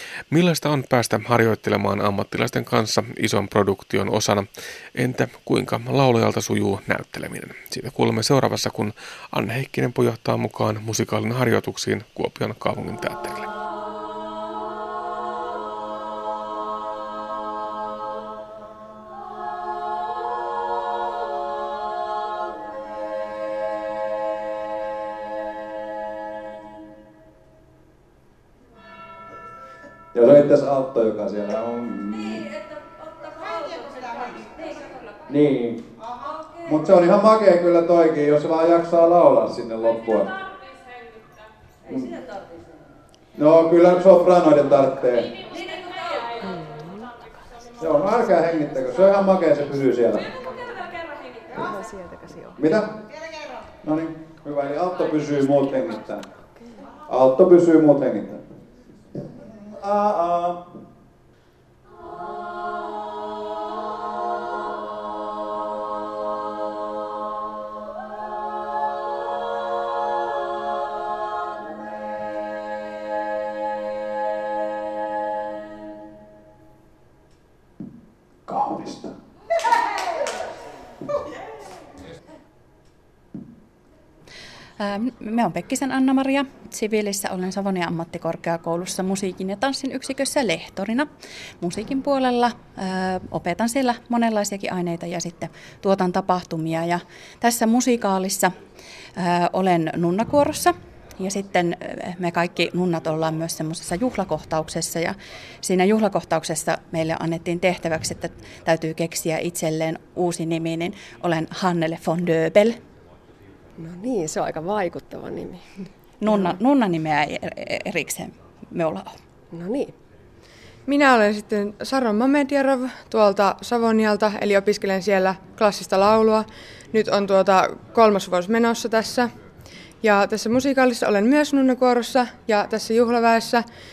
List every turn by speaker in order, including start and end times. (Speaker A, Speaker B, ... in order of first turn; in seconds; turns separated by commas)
Speaker A: 0.3-13.5, Speaker B: 30.1-32.5, Speaker B: 35.3-35.9, Speaker B: 36.6-40.3, Speaker B: 41.9-42.2, Speaker B: 43.4-45.4, Speaker C: 46.4-47.2, Speaker B: 47.8-50.3, Speaker C: 51.5-52.6, Speaker B: 52.6-53.0, Speaker B: 53.8-56.3, Speaker B: 57.1-58.4, Speaker B: 59.6-60.6, Speaker B: 78.5-79.1, Speaker D: 84.8-91.1, Speaker D: 91.6-98.5, Speaker D: 99.2-112.8, Speaker C: 113.8-115.7, Speaker D: 116.2-119.2, Speaker C: 119.5-119.9, Speaker E: 120.8-129.3, Speaker E: 130.0-133.6